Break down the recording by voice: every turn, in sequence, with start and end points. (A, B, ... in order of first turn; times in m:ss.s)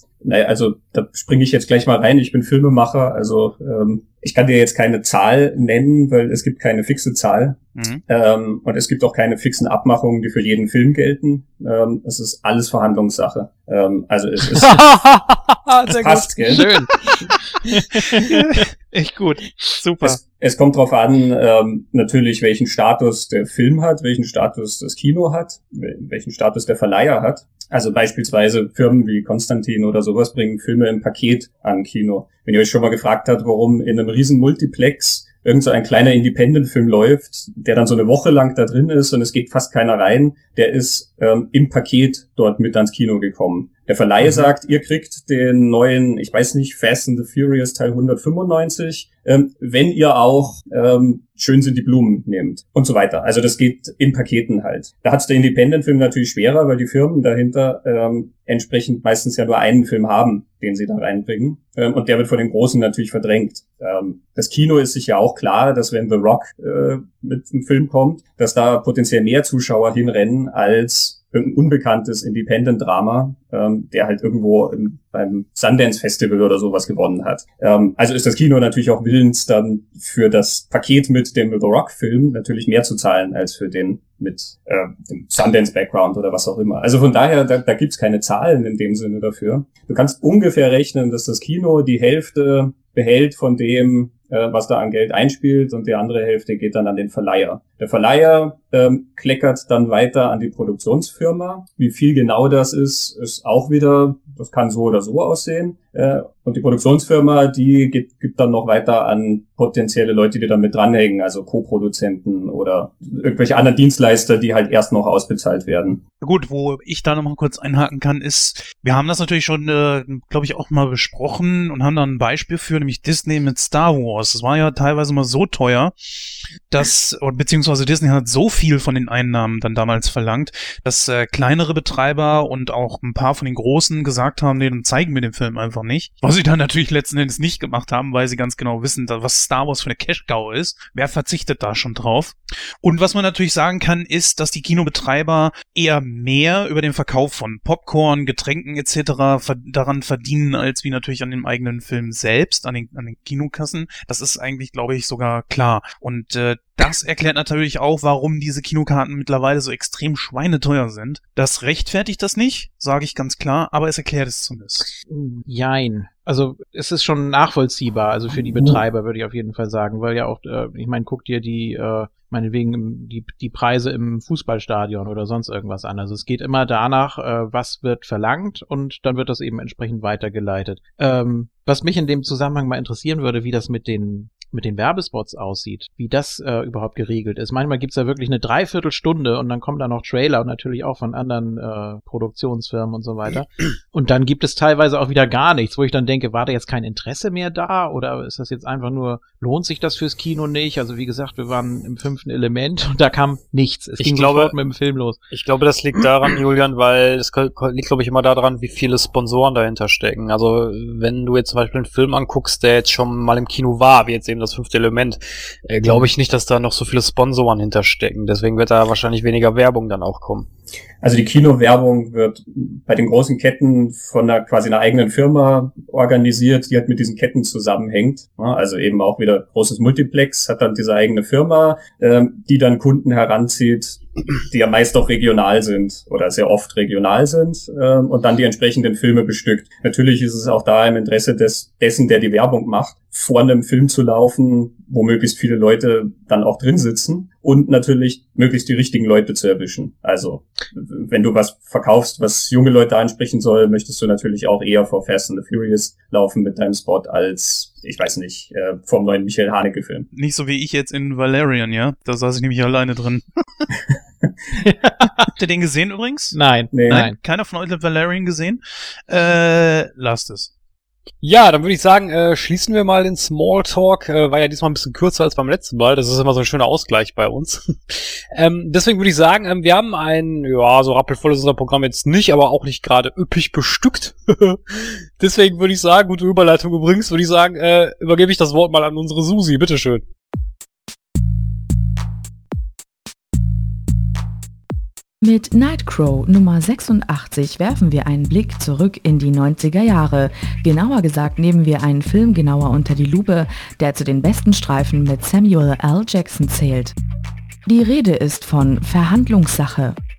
0:00.2-0:14.8 A
0:07.8-0:08.0 B
0:14.7-0:15.6 C
0:15.8-0:20.2 D
0:15.9-0:16.7 A
0:20.0-1:56.0 A
1:56.2-2:44.9 B
2:45.1-3:25.2 D
3:24.0-3:24.5 C
3:25.3-3:40.5 C
3:41.0-4:20.1 A
4:20.1-4:23.7 B
4:24.6-4:25.3 D
4:25.3-4:30.5 B
4:26.3-4:27.2 D
4:26.7-4:27.1 A
4:31.2-4:50.0 C
4:55.2-5:07.0 E
5:07.7-5:10.0 E